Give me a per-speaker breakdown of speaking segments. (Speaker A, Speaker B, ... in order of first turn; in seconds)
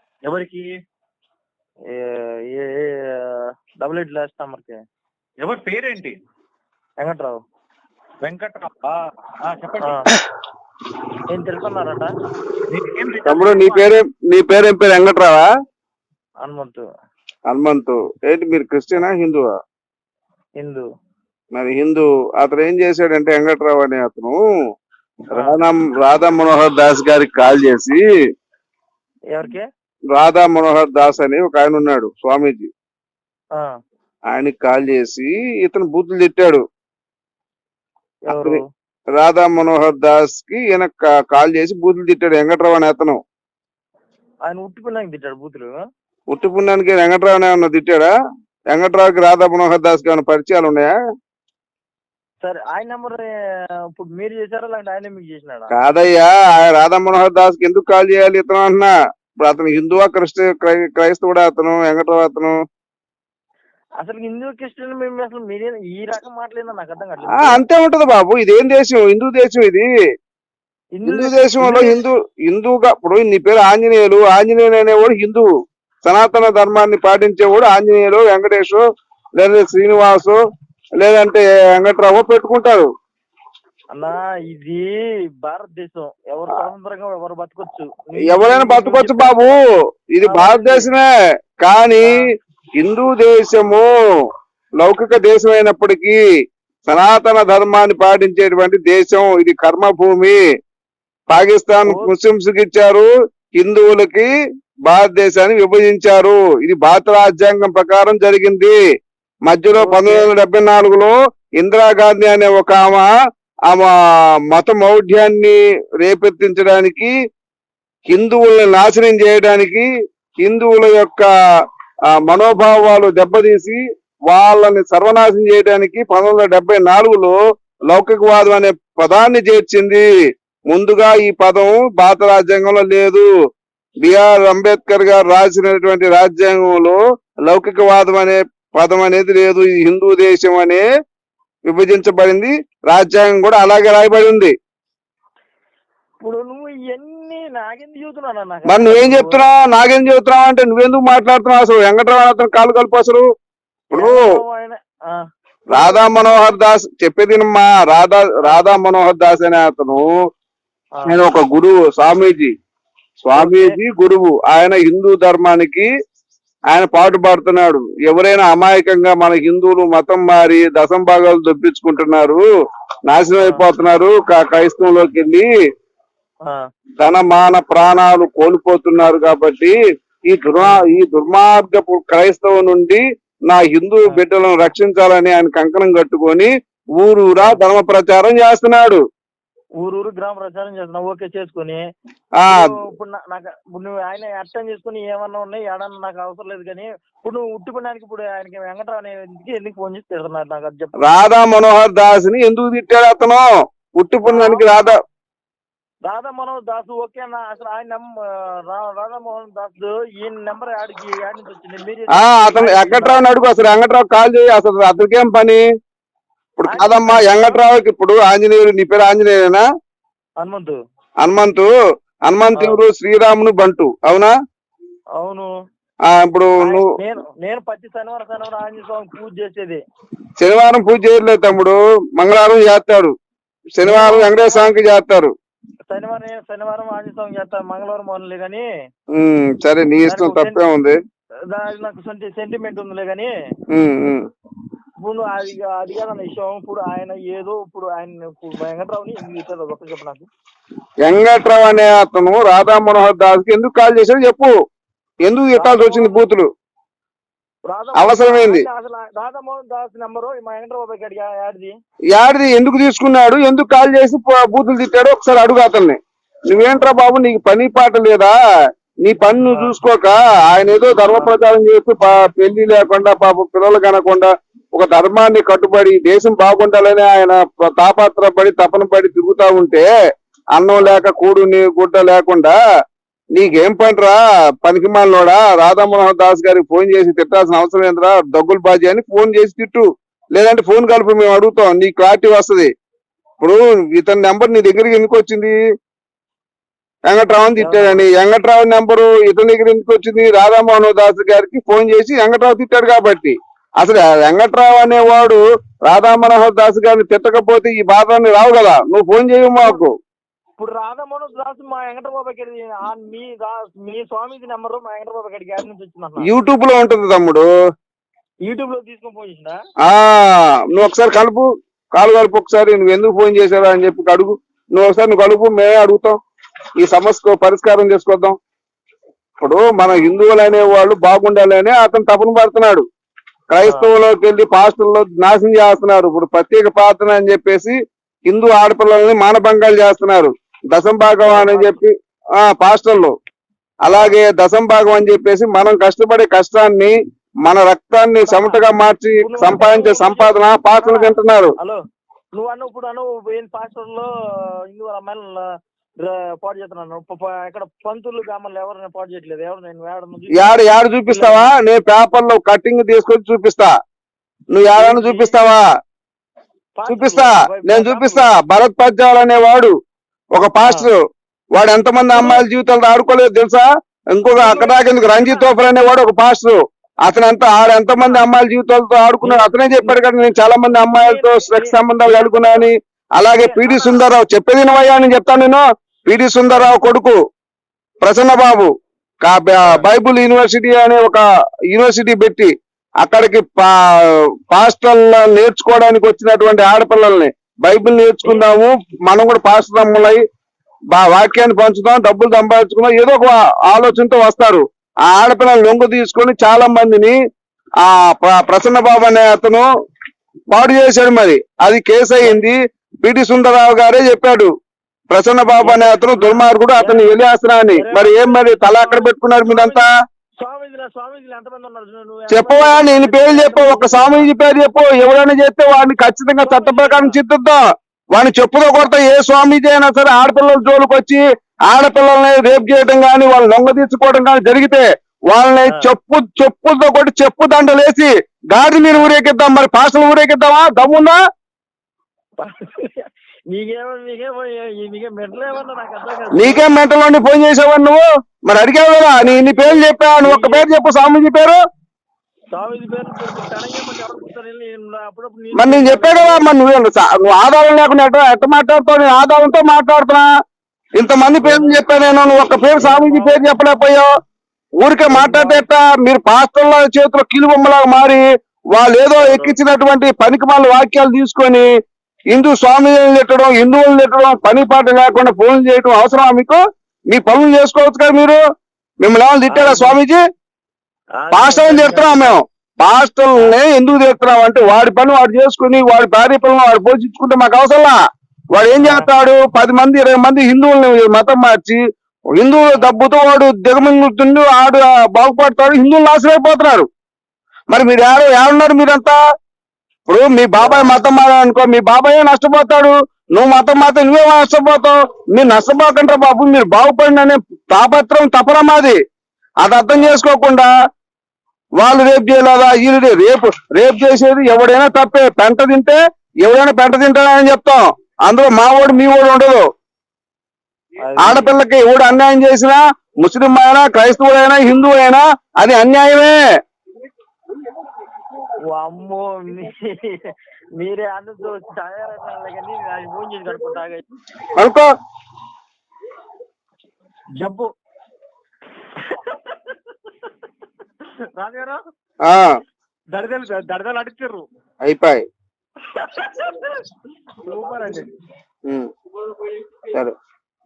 Speaker A: 0.2-0.7, 5.4-6.2, 8.2-8.8, 9.4-10.0, 12.7-13.9
Speaker B: 1.9-4.8, 7.0-7.4, 9.8-10.1, 11.3-12.1, 16.4-16.8, 20.6-20.8, 25.3-25.6, 29.3-29.6, 38.3-38.6, 44.5-45.8, 52.4-53.2, 54.0-55.7, 64.0-67.6, 71.0-72.0, 83.9-89.5, 90.2-90.9, 101.8-102.1, 109.7-110.3, 146.2-149.4, 153.9-155.2, 155.7-156.2, 163.3-163.8, 173.4-173.7, 180.6-180.8, 187.4-187.6, 189.8-191.8, 192.5-201.0, 204.2-205.0, 206.1-213.3, 216.7-217.6, 220.4-220.8, 222.5-222.8, 225.2-225.5, 226.6-229.8, 233.8-234.7, 235.9-238.7, 240.1-240.6, 241.5-243.3, 245.0-250.2, 255.6-256.3, 257.7-261.7, 269.4-269.7, 271.1-271.4, 280.8-281.0, 297.6-298.1, 310.6-316.3, 318.5-319.6, 333.6-333.9, 341.2-341.8, 343.9-344.2, 348.2-348.6, 349.2-351.8, 352.3-354.1, 354.7-355.4, 356.0-361.5, 364.8-365.4, 366.8-368.3, 372.1-372.4, 374.4-375.5, 379.2-380.0, 380.7-382.7, 383.3-384.0, 386.5-386.8, 415.6-417.2, 417.7-419.9, 420.4-424.3, 426.4-427.2, 442.4-446.7, 449.2-450.6, 452.5-456.4, 461.4-461.9, 462.8-463.5, 465.0-465.7, 469.1-469.6, 479.5-480.0, 481.2-482.4, 488.8-489.1, 500.6-501.0, 509.9-510.2, 521.0-521.5, 528.7-530.2, 530.8-534.0, 537.4-537.7, 539.0-539.8, 541.3-541.8, 543.1-544.4, 545.8-546.8, 547.4-548.1
Speaker C: 13.2-15.5, 17.5-19.5, 21.5-24.4, 25.4-28.0, 30.1-32.7, 34.3-36.6, 38.3-38.6, 39.2-43.2, 46.3-48.1, 48.7-50.9, 55.7-58.9, 59.4-62.5, 67.3-69.9, 71.0-75.5, 76.0-78.8, 79.4-80.4, 81.0-82.9, 88.2-89.6, 90.1-91.1, 91.6-92.2, 92.8-93.9, 94.8-96.2, 96.9-100.4, 101.3-104.3, 104.9-108.7, 109.5-113.1, 114.5-117.1, 118.1-119.9, 120.4-121.3, 122.1-127.4, 127.9-130.1, 130.7-133.2, 134.0-140.8, 141.7-144.5, 148.7-153.2, 153.9-154.2, 155.7-160.1, 161.1-162.5, 163.2-165.9, 166.7-172.4, 173.1-175.5, 177.0-179.8, 180.3-189.0, 192.4-192.8, 201.0-204.9, 212.1-215.6, 216.6-219.6, 221.2-221.7, 222.3-224.3, 226.1-226.8, 230.4-233.1, 233.8-235.3, 239.1-240.9, 243.7-244.2, 251.0-254.5, 255.2-256.5, 257.9-258.6, 262.1-268.4, 269.0-279.9, 280.6-282.6, 283.3-292.7, 293.4-295.5, 297.1-309.9, 316.2-317.5, 319.8-326.1, 326.8-328.4, 329.4-332.8, 333.5-337.8, 338.3-343.1, 343.8-351.5, 360.4-363.7, 364.5-365.6, 366.9-369.7, 370.3-371.0, 371.6-387.2, 388.0-388.7, 389.2-392.5, 393.0-393.7, 394.5-400.2, 400.9-407.2, 407.8-409.6, 410.5-414.5, 415.1-419.9, 422.3-427.6, 428.1-441.2, 446.4-451.6, 455.6-460.3, 461.0-464.1, 464.8-468.2, 468.7-471.7, 472.3-476.6, 477.1-478.4, 479.0-480.2, 481.3-488.0, 488.5-491.8, 492.4-496.9, 497.7-499.2, 500.1-509.0, 509.6-510.7, 511.8-519.6, 521.2-526.4, 534.5-534.9, 544.8-545.2